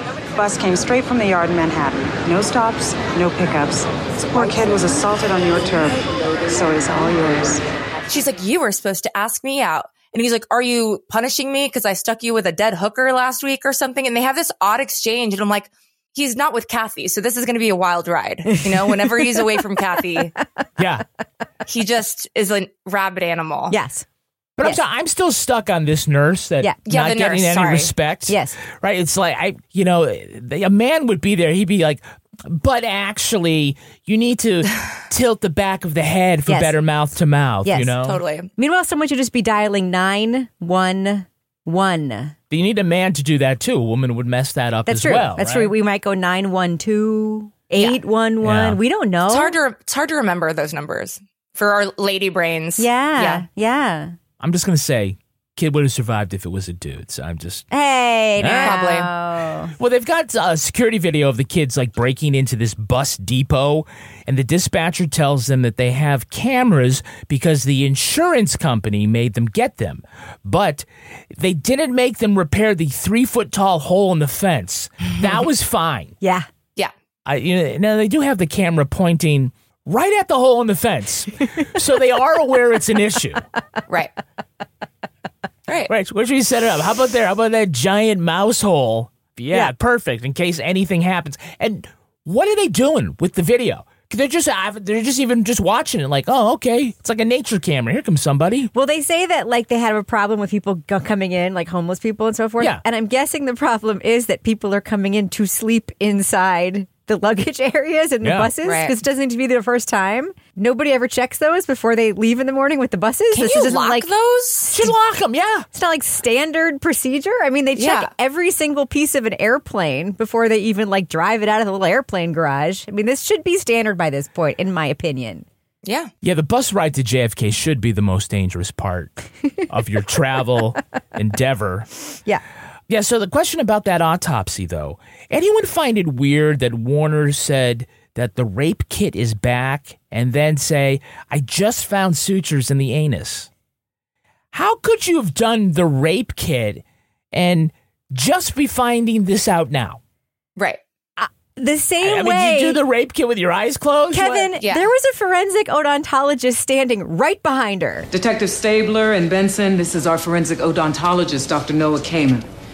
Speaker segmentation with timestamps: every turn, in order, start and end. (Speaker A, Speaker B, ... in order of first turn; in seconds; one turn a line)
Speaker A: 0.3-7.6
Speaker B: 8.1-20.3
Speaker C: 20.8-21.0
Speaker B: 21.6-23.7
Speaker D: 23.7-24.0
Speaker C: 24.6-38.2
Speaker B: 26.9-27.9
Speaker D: 28.3-28.6
Speaker D: 36.5-36.8
Speaker D: 37.6-37.9
Speaker B: 38.0-38.5
Speaker D: 38.6-42.3
Speaker C: 42.5-45.7
Speaker D: 44.9-49.5
Speaker C: 48.4-48.8
Speaker B: 49.3-53.4
Speaker D: 52.8-54.1
Speaker C: 54.4-57.6
Speaker D: 57.7-59.7
Speaker C: 58.4-58.8
Speaker B: 58.6-59.1
Speaker C: 59.8-76.1
Speaker D: 76.2-76.5
Speaker C: 77.2-83.4
Speaker C: 85.9-98.7
Speaker D: 98.7-114.1
Speaker C: 108.2-108.5
Speaker B: 108.6-108.9
Speaker B: 113.3-114.8
Speaker C: 114.7-115.7
Speaker D: 115.7-125.5
Speaker B: 117.8-118.1
Speaker B: 125.8-126.1
Speaker C: 126.2-129.1
Speaker C: 129.7-131.9
Speaker C: 132.9-143.5
Speaker C: 144.5-150.0
Speaker D: 151.2-152.8
Speaker C: 152.0-154.5
Speaker D: 154.1-158.1
Speaker B: 154.6-154.9
Speaker E: 158.1-162.5